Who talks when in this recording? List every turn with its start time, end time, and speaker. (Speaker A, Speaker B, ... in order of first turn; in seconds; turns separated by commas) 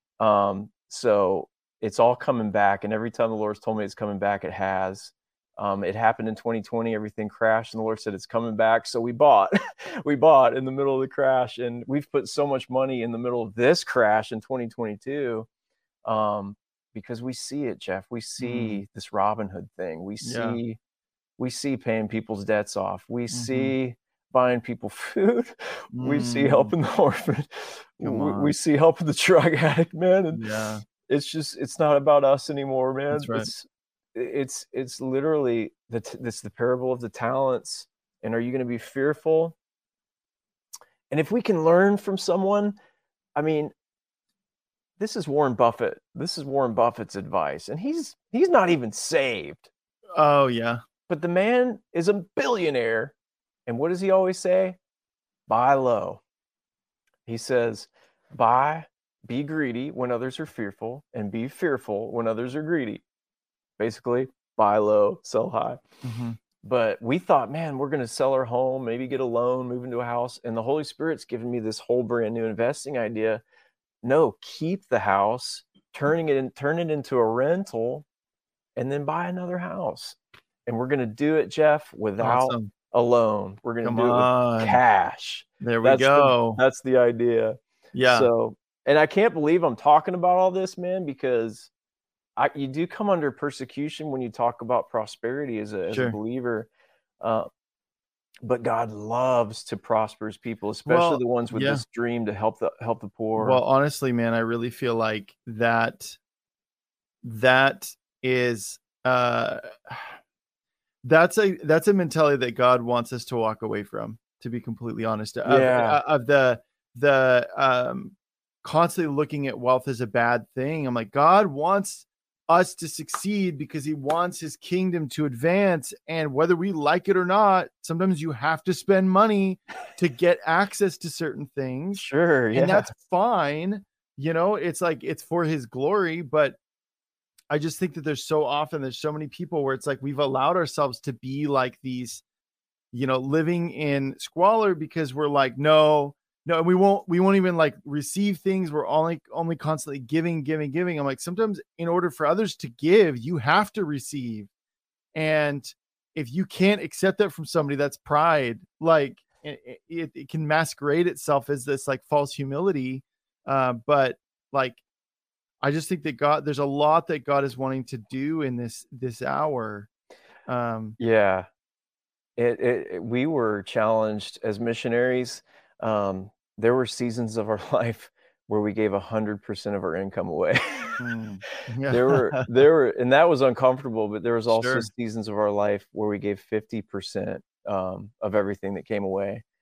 Speaker A: 0.2-15.5, Speaker A: 16.1-20.8, Speaker B: 18.4-18.8, Speaker B: 20.2-20.6, Speaker A: 21.4-39.5, Speaker B: 23.3-23.8, Speaker B: 25.9-26.7, Speaker B: 28.0-28.5, Speaker B: 30.3-30.8, Speaker B: 33.1-33.5, Speaker A: 41.1-42.8, Speaker A: 43.4-43.7, Speaker A: 45.0-49.7, Speaker B: 50.1-50.8, Speaker A: 51.1-53.1, Speaker A: 53.7-54.8, Speaker A: 55.5-56.2, Speaker A: 57.3-63.0, Speaker A: 63.8-65.8, Speaker B: 66.0-66.4, Speaker A: 66.6-73.4, Speaker A: 74.0-78.1, Speaker A: 78.8-91.7, Speaker B: 82.2-82.7, Speaker B: 83.8-84.8, Speaker B: 85.6-86.6, Speaker B: 87.9-88.3, Speaker A: 92.4-96.7, Speaker B: 95.9-96.2, Speaker A: 97.2-97.5, Speaker A: 98.4-103.6, Speaker B: 100.9-101.8, Speaker B: 103.4-106.2, Speaker B: 107.2-110.2, Speaker B: 111.0-136.6, Speaker A: 115.5-116.0, Speaker A: 131.9-132.9, Speaker B: 137.5-142.2, Speaker B: 142.9-154.5, Speaker B: 155.2-164.8, Speaker B: 165.6-169.9, Speaker B: 170.5-171.0, Speaker A: 171.0-171.5, Speaker A: 172.4-181.1, Speaker B: 181.0-182.5, Speaker A: 181.9-189.4, Speaker B: 184.5-184.9